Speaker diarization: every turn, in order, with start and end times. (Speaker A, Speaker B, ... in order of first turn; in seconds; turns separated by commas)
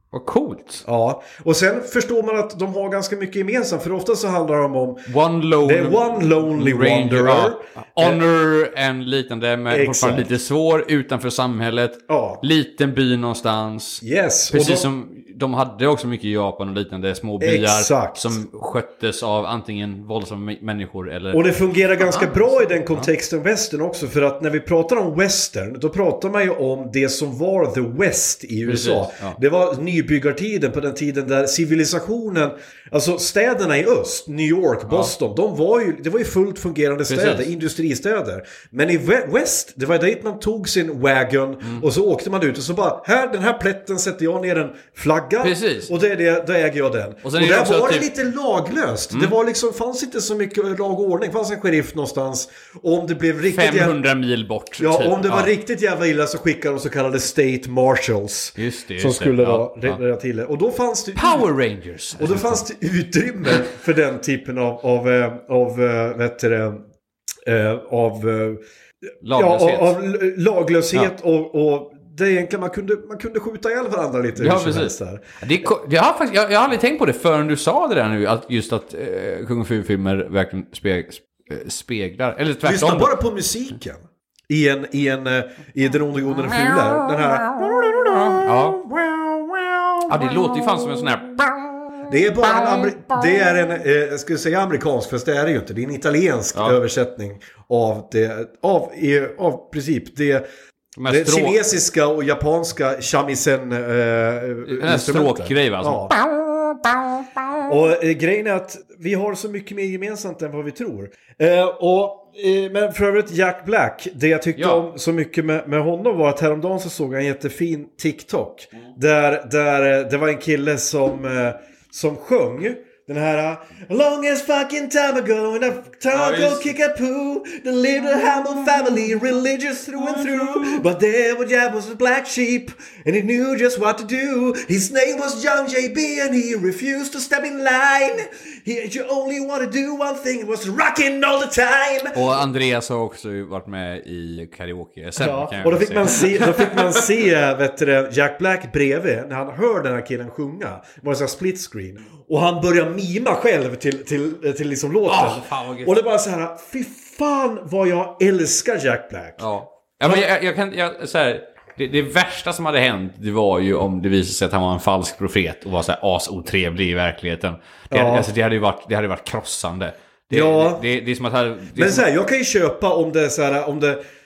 Speaker A: 0.1-0.8, Speaker B: 0.8-5.0, Speaker A: 5.1-21.4, Speaker B: 5.6-8.2, Speaker B: 9.7-10.3, Speaker B: 12.1-12.4, Speaker B: 14.0-14.9, Speaker B: 17.4-18.4, Speaker B: 21.3-54.0, Speaker A: 22.0-23.1, Speaker A: 28.7-29.4, Speaker A: 37.1-37.5, Speaker A: 45.4-45.9, Speaker A: 47.2-48.1, Speaker A: 53.5-55.5, Speaker B: 54.8-61.5, Speaker A: 58.6-60.0, Speaker A: 61.2-62.6, Speaker B: 62.2-66.8, Speaker B: 67.5-68.6, Speaker A: 69.2-70.0, Speaker B: 69.3-75.3, Speaker A: 74.4-83.1, Speaker B: 82.6-91.1, Speaker A: 86.5-87.4, Speaker A: 88.1-88.8, Speaker A: 90.1-93.2, Speaker B: 92.1-100.4, Speaker A: 96.5-96.8, Speaker A: 101.0-101.6, Speaker B: 101.1-106.1, Speaker A: 104.7-107.3, Speaker B: 107.6-142.3, Speaker A: 114.6-114.9, Speaker A: 126.1-126.7, Speaker A: 128.3-129.3, Speaker A: 130.0-130.8, Speaker A: 142.2-147.1, Speaker B: 145.2-159.4, Speaker A: 155.1-156.0, Speaker A: 159.4-172.1, Speaker B: 167.9-168.3, Speaker B: 170.3-170.8, Speaker B: 171.8-174.0